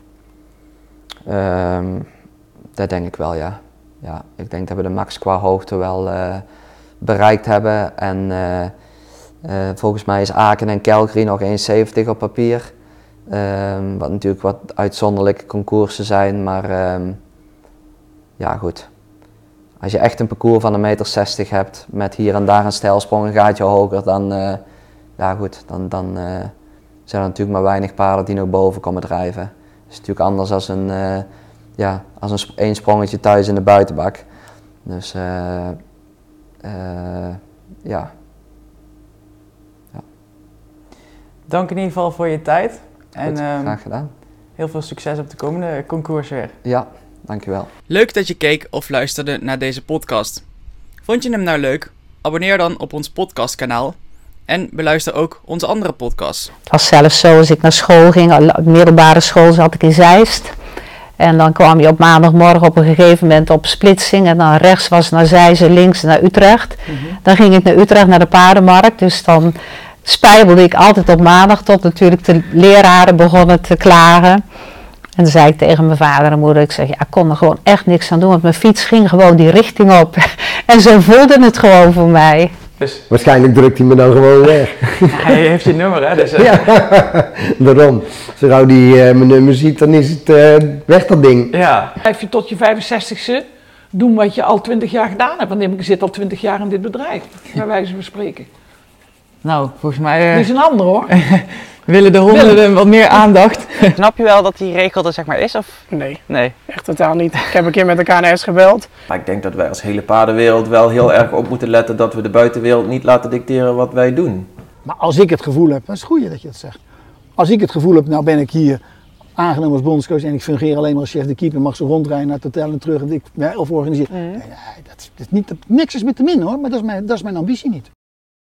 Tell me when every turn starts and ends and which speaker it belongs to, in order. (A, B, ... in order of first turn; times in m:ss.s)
0:01.2-0:02.1 A
0:02.8-0:06.4 A
0:07.0-0:08.7 A
0:09.4-0:12.7 A
0:13.3-0:17.2 A
0:18.4-0:18.9 A
0:19.8-0:24.6 A
0:25.2-0:26.5 A
0:27.1-0:34.2 A
0:34.8-0:35.8 A
0:36.6-0:38.1 A
0:41.5-0:43.8 B
0:43.2-0:44.1 A
0:44.6-0:46.5 B
0:46.6-0:47.7 A
0:47.9-0:50.4 B
0:51.0-0:54.0 B
0:54.5-0:56.5 B
0:56.7-1:00.5 C
1:01.2-1:14.4 C
1:15.2-1:22.5 C
1:23.1-1:25.3 D
1:25.1-1:26.6 B
1:26.3-1:31.5 D
1:31.5-1:31.9 B
1:32.0-1:38.5 E
1:39.4-1:40.5 B
1:40.3-1:41.1 E
1:41.1-1:46.6 B
1:42.3-1:42.6 E
1:45.9-1:48.9 F
1:49.1-1:54.5 G
1:54.8-1:56.8 H
1:57.4-1:58.8 H
1:59.4-2:07.9 H
2:04.1-2:04.4 B